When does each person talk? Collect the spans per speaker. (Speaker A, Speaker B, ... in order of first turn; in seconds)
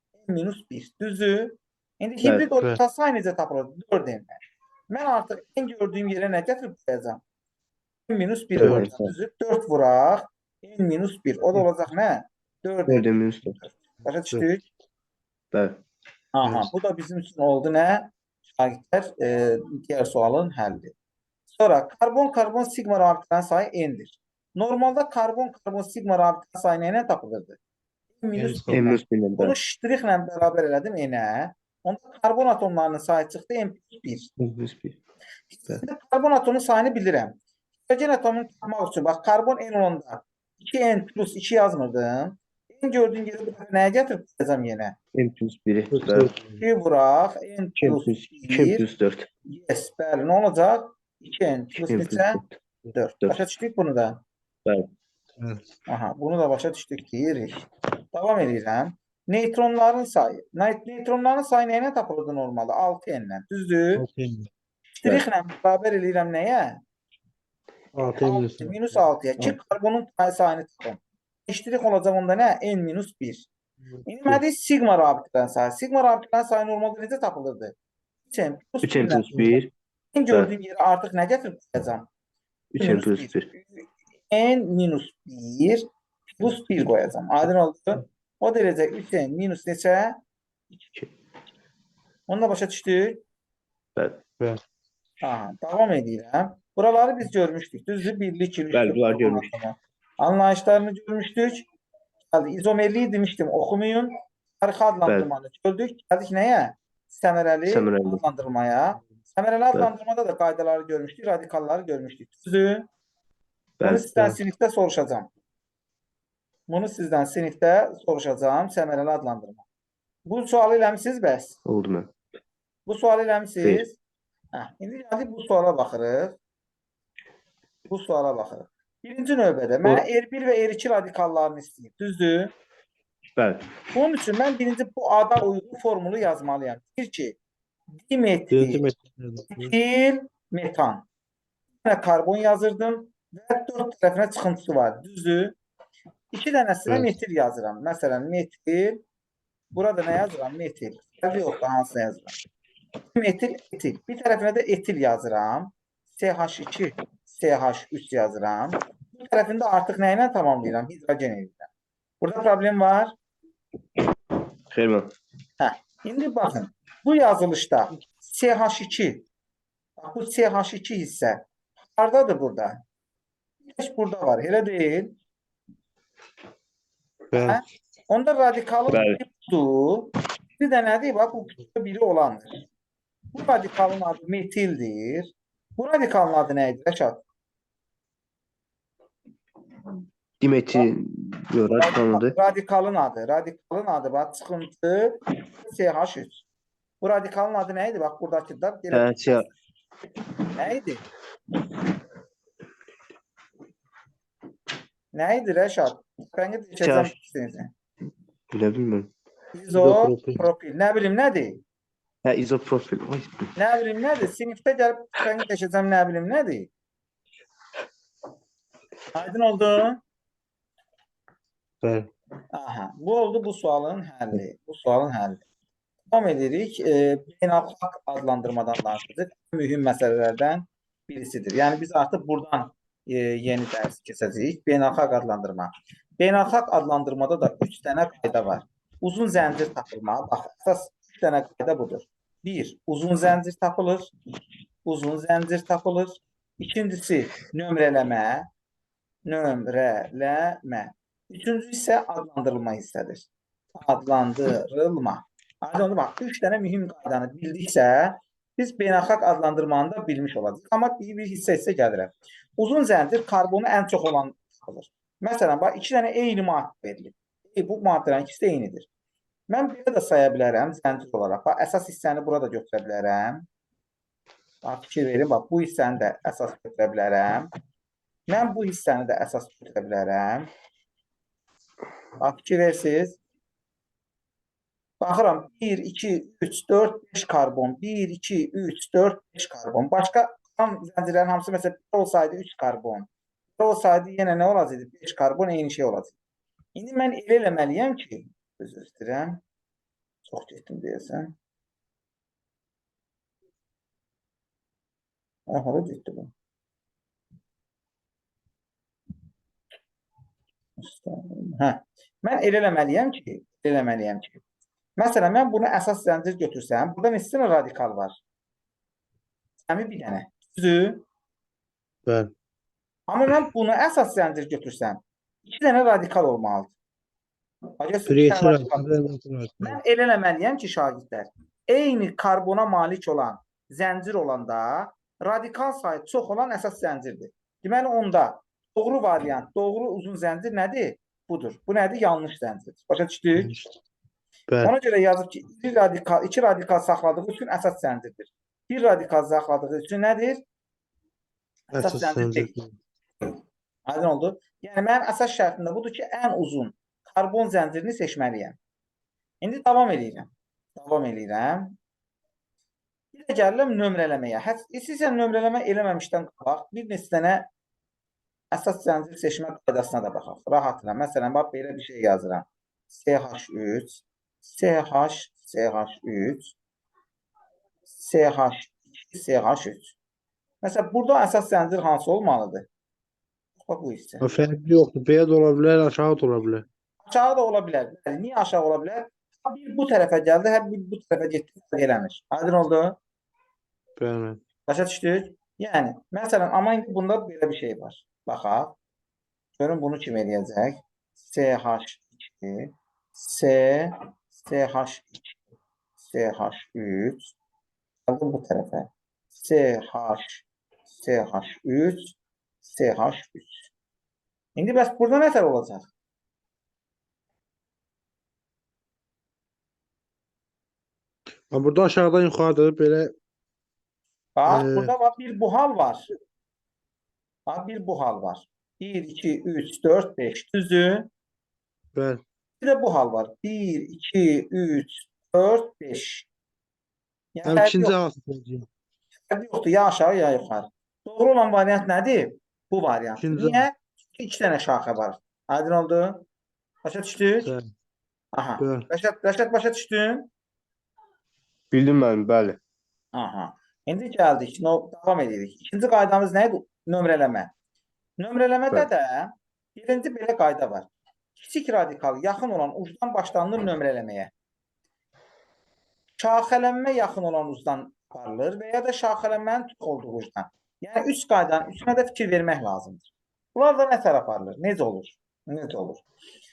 Speaker A: 0.2-7.2, 8.1-13.1, 13.6-14.7, 16.3-20.9, 21.5-27.6, 28.2-34.3, 35.5-45.0, 46.6-48.9, 49.5-52.4, 52.9-54.2, 55.9-64.0, 65.0-66.8, 68.2-73.5, 74.0-77.7, 78.3-79.5, 80.1-82.1, 82.8-90.2, 92.3-93.2, 95.2-101.7, 102.3-112.9, 113.8-115.3, 116.7-119.6, 120.2-121.6, 122.8-124.0, 124.5-126.4, 127.9-132.5, 133.9-137.4, 138.0-138.8, 139.5-141.1, 141.8-145.6, 146.3-149.0, 149.7-152.3, 153.1-161.7, 162.2-163.2, 165.6-169.2, 170.0-172.8, 173.6-175.2, 177.3-182.5, 183.3-187.2, 191.7-196.4, 197.0-199.5, 200.5-201.0, 205.1-207.7, 209.5-211.6, 213.5-216.7, 219.1-220.0, 222.5-225.4, 226.1-244.1, 244.8-248.5, 249.2-268.9, 269.5-273.5, 274.6-277.5, 278.3-280.5, 282.2-283.2, 285.0-296.1, 296.7-299.4, 300.2-301.3, 305.5-306.3, 310.8-314.4, 315.0-318.2, 319.6-321.1, 323.1-326.7, 327.8-328.9, 329.6-343.5, 344.6-350.4, 351.7-352.5, 353.2-358.6, 359.4-361.8, 363.1-367.5, 368.5-376.5, 377.9-379.9, 380.6-382.7, 383.6-384.2, 387.0-393.0, 394.7-398.8, 399.6-405.4, 406.0-407.3, 408.1-413.7, 414.6-415.9, 424.4-426.1, 427.5-431.1, 432.6-436.3, 437.3-437.9, 439.3-446.2, 446.8-447.5, 448.3-450.3, 453.1-457.5, 458.2-464.3, 466.2-476.0
Speaker B: 8.6-8.9, 28.3-28.9, 45.9-46.6, 64.0-64.5, 67.9-68.7, 138.5-139.7, 177.3-177.6, 209.8-210.4, 221.8-222.1, 322.1-322.3, 328.1-329.8, 343.3-343.7, 344.5-344.7, 351.7-352.7, 384.2-386.6, 394.0-394.4, 421.5-423.1, 424.5-424.9, 431.9-432.2, 437.4-438.7, 443.2-443.6, 447.4-447.7, 448.6-448.9
Speaker C: 8.6-9.1, 12.9-13.6, 15.5-15.8, 28.7-29.5, 34.4-35.0, 45.1-46.3, 47.8-49.3, 51.9-52.5, 78.8-79.7, 82.7-83.5, 94.0-94.2, 98.7-99.5, 107.7-108.2, 113.8-114.1, 121.6-122.1, 133.3-133.7, 164.7-165.1, 178.9-179.2, 190.4-192.3, 198.9-199.5, 206.8-207.1, 208.5-209.1, 212.2-213.5, 451.7-452.6